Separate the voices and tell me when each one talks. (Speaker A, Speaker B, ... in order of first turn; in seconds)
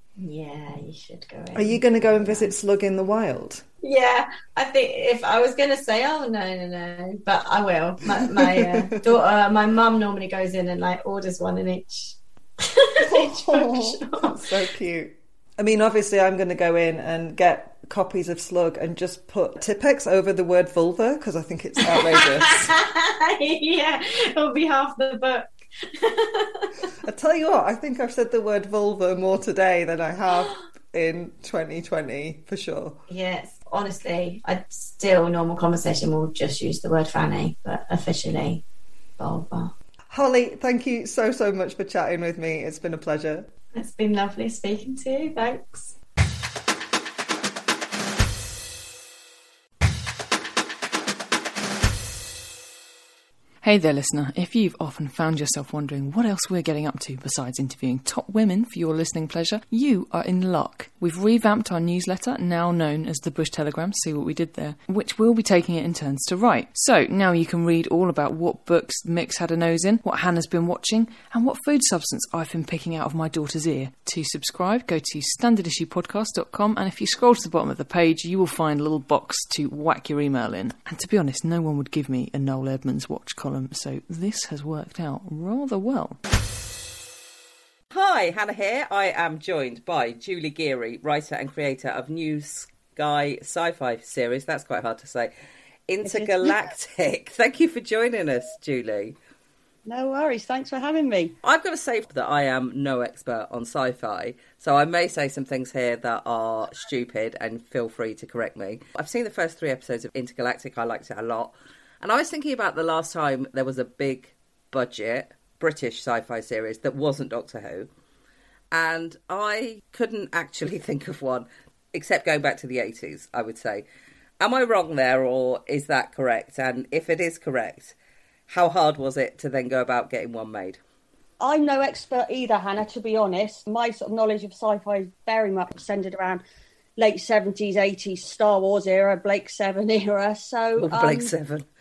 Speaker A: 0.2-2.5, 3.8-14.4, 21.9-26.7, 33.1-38.6, 39.2-39.7, 43.7-45.9
Speaker B: 1.5-3.6, 8.2-9.1, 13.0-22.7, 27.0-33.0, 40.1-43.5
Speaker C: 53.6-86.2
Speaker D: 87.9-95.3, 95.9-99.2, 101.4-117.9, 118.7-123.8, 124.4-127.9, 128.5-130.8, 140.8-141.7
Speaker E: 96.0-96.6, 99.9-101.3, 131.4-136.4, 137.0-141.3